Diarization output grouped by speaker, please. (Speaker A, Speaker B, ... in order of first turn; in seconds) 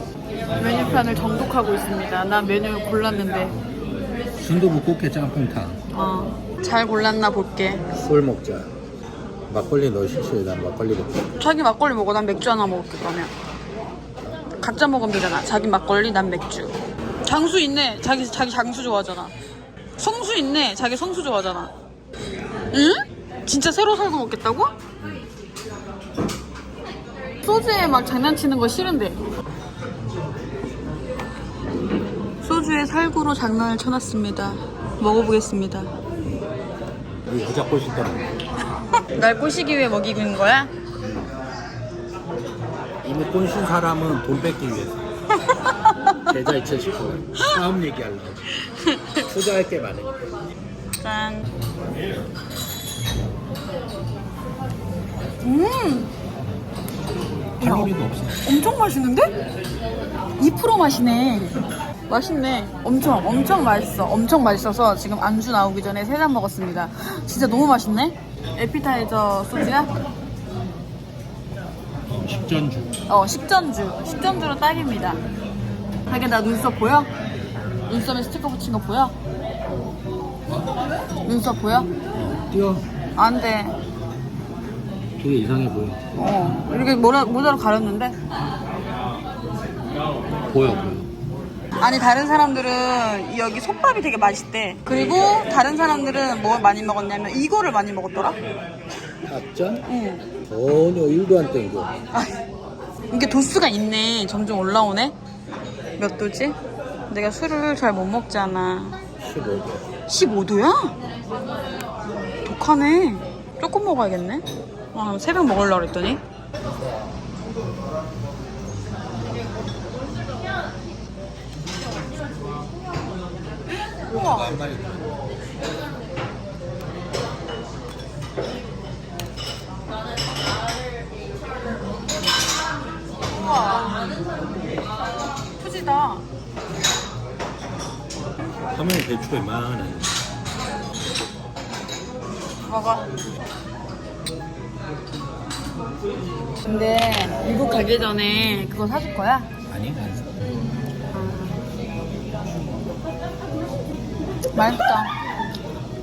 Speaker A: 0.5-3.5, 5.9-7.8, 11.4-13.3, 14.6-19.3, 20.0-21.7, 22.7-24.7, 27.4-29.2, 32.4-35.9, 39.0-40.7, 45.5-46.2, 48.6-49.1, 51.0-51.5, 55.4-56.1, 57.6-57.9, 58.4-59.3, 60.4-61.5, 62.1-69.9, 73.1-75.2, 76.1-77.1, 77.9-79.1, 81.2-81.9, 83.2-83.7, 86.2-88.2, 91.8-98.4, 99.9-100.2, 102.1-102.4, 103.1-105.1, 106.0-106.5, 107.1-109.0, 110.1-110.9, 112.4-116.2, 123.9-124.5, 133.3-134.1, 135.6-136.2, 142.6-143.1, 146.6-149.5, 151.1-151.6, 154.5-155.1
Speaker B: 4.4-5.8, 7.9-8.7, 9.5-11.2, 37.2-38.3, 43.0-45.0, 46.2-48.5, 49.1-50.1, 57.6-58.4, 72.1-72.9, 82.1-82.8, 85.2-86.0, 90.5-91.1, 99.2-99.8, 100.5-101.9, 109.2-109.8, 124.1-125.1, 138.7-140.2, 149.7-150.3